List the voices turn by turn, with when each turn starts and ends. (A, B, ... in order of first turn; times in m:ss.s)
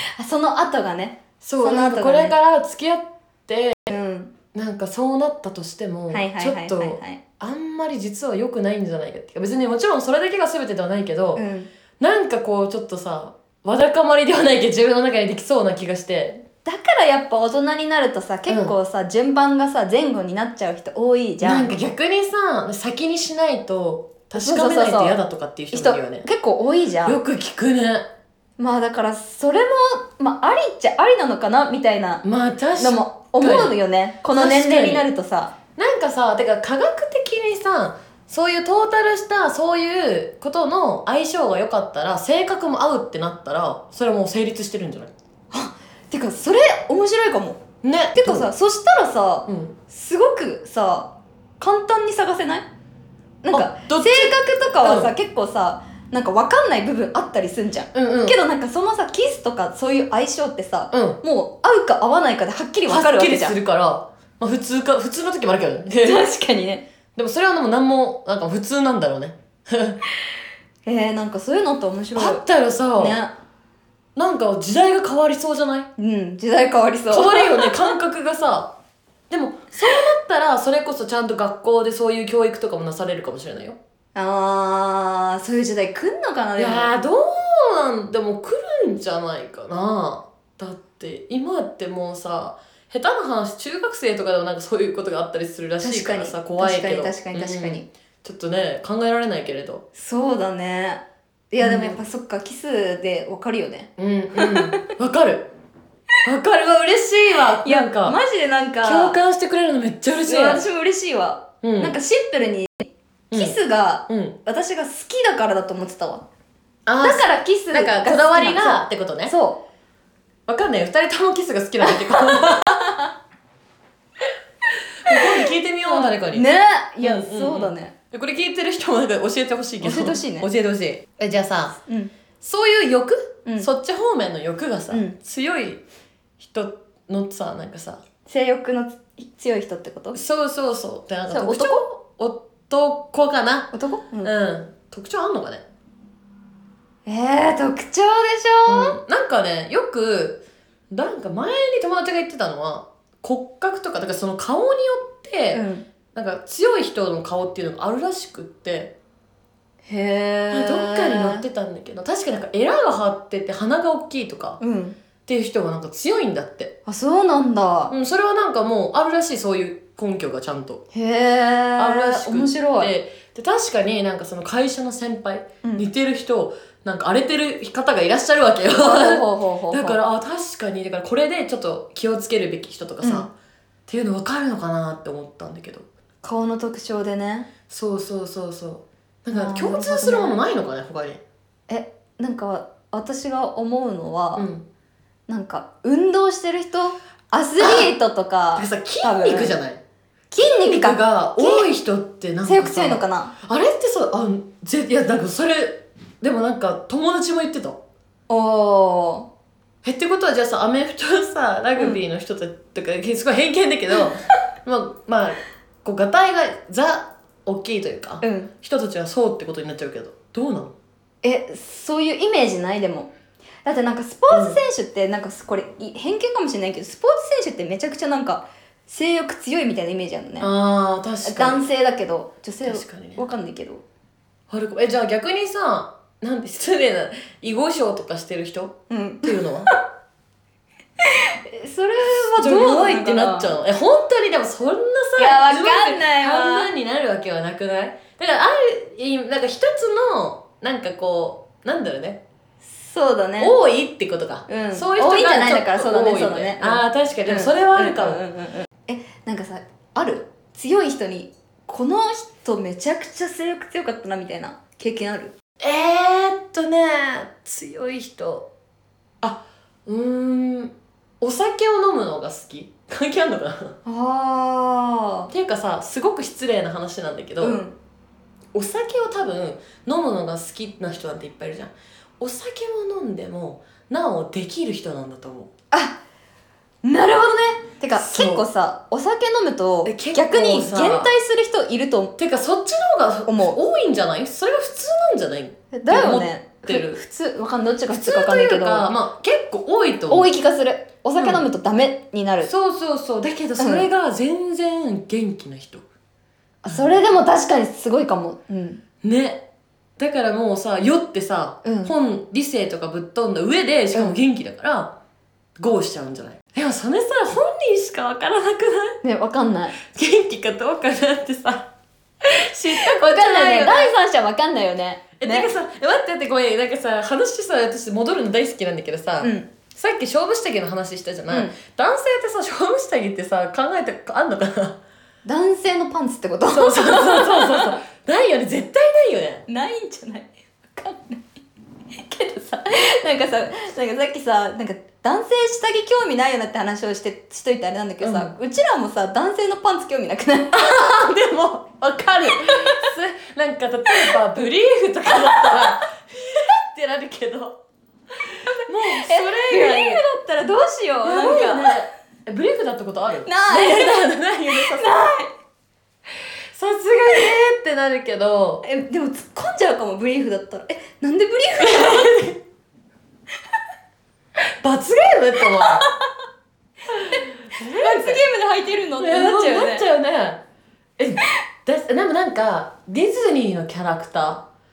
0:00.2-0:02.4 A
0:01.4-0:03.9 B
0:03.9-0:04.4 A
0:04.5-0:11.4 B
0:06.1-0:07.2 A
0:11.4-0:11.7 A
0:12.0-0:16.4 B
0:16.6-0:21.7 A
0:18.5-0:18.7 B
0:21.4-0:26.3 B
0:24.3-0:25.2 A
0:25.7-0:27.2 A
0:27.0-0:28.1 B
0:28.6-0:32.2 A
0:32.2-0:33.8 B
0:32.8-0:35.5 A
0:34.3-0:35.1 B
0:35.8-0:45.1 B
0:45.5-0:52.7 A
0:47.8-0:48.5 B
0:49.5-0:49.8 B
0:53.4-1:03.6 A
0:53.5-0:55.1 B
0:57.9-0:58.4 B
1:00.9-1:01.2 B
1:02.9-1:06.3 B
1:06.0-1:06.8 A
1:07.2-1:10.0 B
1:10.9-1:12.4 A
1:12.1-1:13.2 B
1:13.0-1:13.3 A
1:14.2-1:15.9 B
1:16.0-1:17.9 A
1:17.1-1:18.7 B
1:19.3-1:23.8 B
1:24.2-1:26.9 A
1:26.6-1:39.8 B
1:35.8-1:37.9 A
1:40.0-1:44.8 A
1:41.6-1:42.0 B
1:44.0-1:45.5 B
1:46.2-1:48.2 B
1:47.4-1:49.2 A
1:48.8-1:50.6 B
1:50.2-1:56.2 A
1:51.6-1:52.0 B
1:53.3-1:53.6 B
1:54.1-1:54.4 B
1:56.9-1:59.3 B
1:57.0-1:59.6 A
2:00.5-2:02.9 B
2:01.8-2:02.7 A
2:05.0-2:06.5 B
2:05.1-2:07.9 A
2:07.0-2:11.8 B
2:09.8-2:10.5 A
2:11.9-2:12.1 A
2:12.4-2:15.8 B
2:14.9-2:15.2 A
2:16.4-2:18.0 B
2:18.3-2:20.2 A
2:20.1-2:23.7 B
2:21.3-2:21.8 A
2:23.7-2:24.3 A
2:24.2-2:25.6 B
2:27.1-2:29.0 A
2:28.7-2:38.9 B
2:35.5-2:35.9 A
2:39.9-2:41.4 A
2:40.5-2:44.6 B
2:44.6-2:45.0 A
2:45.3-2:46.7 B
2:46.9-2:47.9 A
2:47.9-2:50.8 B
2:50.9-2:52.9 A
2:51.8-3:03.3 B
2:58.8-3:00.0 A
3:03.0-3:03.3 A
3:03.9-3:05.9 B
3:06.2-3:07.5 A
3:07.7-3:11.2 B
3:09.3-3:10.4 A
3:11.7-3:14.5 A
3:14.4-3:14.6 B
3:15.3-3:19.6 A
3:17.6-3:17.9 B
3:18.6-3:19.8 B
3:20.3-3:21.7 A
3:20.4-3:27.8 B
3:22.4-3:23.3 A
3:28.3-3:29.3 A
3:29.8-3:40.7 B
3:31.8-3:32.0 A
3:38.2-3:38.5 A
3:41.2-3:43.1 A
3:43.6-3:50.5 A
3:44.3-3:44.6 B
3:50.4-3:51.6 B
3:51.2-3:53.8 A
3:52.6-3:53.2 B
3:54.5-3:59.7 B
3:58.9-3:59.7 A
4:01.0-4:03.5 A
4:02.4-4:12.2 B
4:05.2-4:06.7 A
4:12.7-4:13.6 A
4:13.4-4:18.2 B
4:14.5-4:25.4 A
4:25.6-4:28.5 B
4:29.2-4:33.8 B
4:33.9-4:35.3 A
4:35.3-4:37.6 B
4:37.4-4:37.8 A
4:38.5-4:45.5 B
4:45.7-4:46.0 A
4:46.8-4:52.2 A
4:47.9-4:48.4 B
4:49.9-4:51.1 B
4:52.2-4:57.0 B
4:53.3-4:53.6 A
4:55.7-4:58.9 A
4:57.9-5:00.3 B
5:00.1-5:02.5 A
5:01.2-5:01.5 B
5:02.5-5:05.8 B
5:03.6-5:03.9 A
5:06.6-5:08.8 A
5:06.7-5:07.0 B
5:09.0-5:09.4 B
5:10.0-5:14.9 B
5:11.6-5:11.9 A
5:15.6-5:19.0 B
5:19.0-5:19.8 A
5:19.8-5:21.7 B
5:22.2-5:23.9 B
5:22.8-5:25.5 A
5:25.2-5:34.8 B
5:29.2-5:29.5 A
5:31.3-5:31.6 A
5:35.2-5:37.8 A
5:36.5-5:39.4 B
5:39.5-5:41.4 A
5:42.0-5:50.8 A
5:48.0-5:48.3 B
5:50.5-5:57.6 B
5:55.2-5:55.7 A
5:58.4-6:00.0 B
5:58.5-6:01.8 A
6:01.0-6:04.9 B
6:03.2-6:05.3 A
6:06.6-6:08.6 B
6:08.6-6:12.1 A
6:11.6-6:12.4 B
6:14.6-6:15.9 B
6:15.4-6:15.9 A
6:16.9-6:18.2 B
6:17.8-6:19.9 A
6:19.0-6:20.4 B
6:21.0-6:24.4 B